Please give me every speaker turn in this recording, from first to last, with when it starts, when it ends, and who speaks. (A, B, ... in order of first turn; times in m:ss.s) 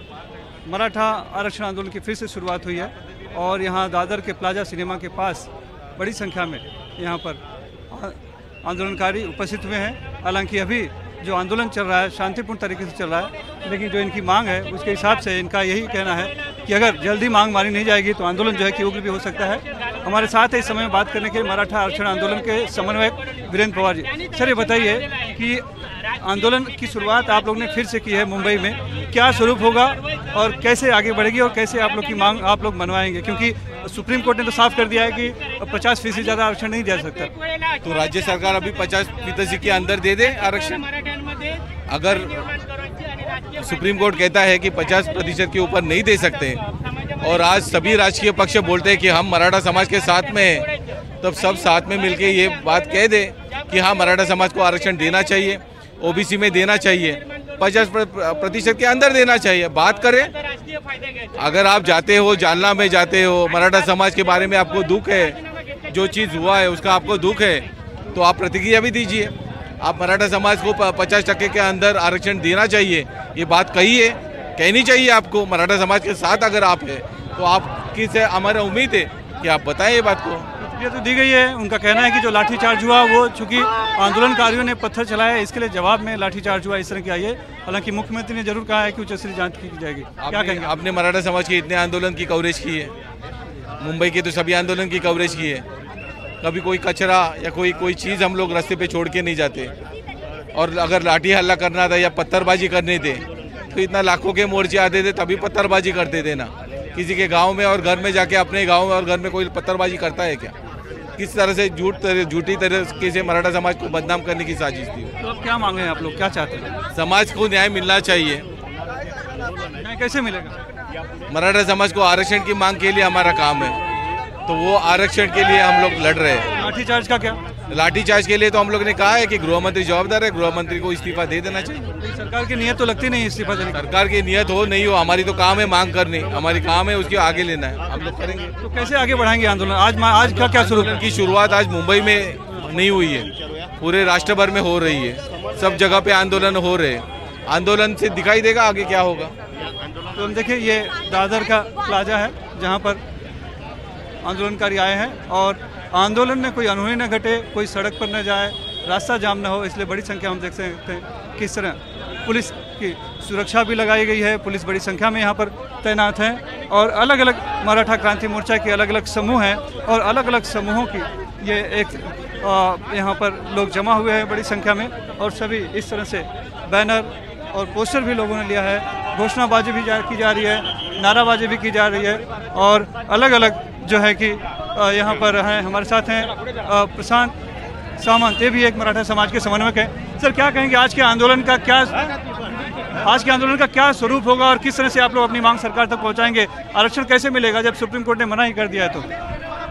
0:00.7-0:37.3 A
0:37.8-0:40.9 B
0:41.9-0:42.4 B
0:43.6-0:46.6 B
0:47.2-0:50.7 B
0:51.2-1:00.3 B
1:01.4-1:05.4 B
1:05.9-1:20.5 B
1:20.6-1:30.7 A
1:30.2-1:32.9 B
1:33.8-1:35.6 B
1:36.4-1:39.7 B
1:40.5-1:50.5 B
1:51.2-1:55.1 B
1:55.2-1:56.8 A
1:56.9-1:58.5 B
1:59.8-2:00.6 A
2:01.3-2:03.8 B
2:04.5-2:06.5 B
2:06.5-2:07.4 A
2:07.7-2:11.9 B
2:12.0-2:13.8 A
2:13.8-2:18.5 B
2:18.6-2:21.0 A
2:20.3-2:29.4 B
2:30.2-2:33.0 A
2:34.2-3:07.3 A
3:08.0-3:12.0 A
3:13.0-3:19.1 A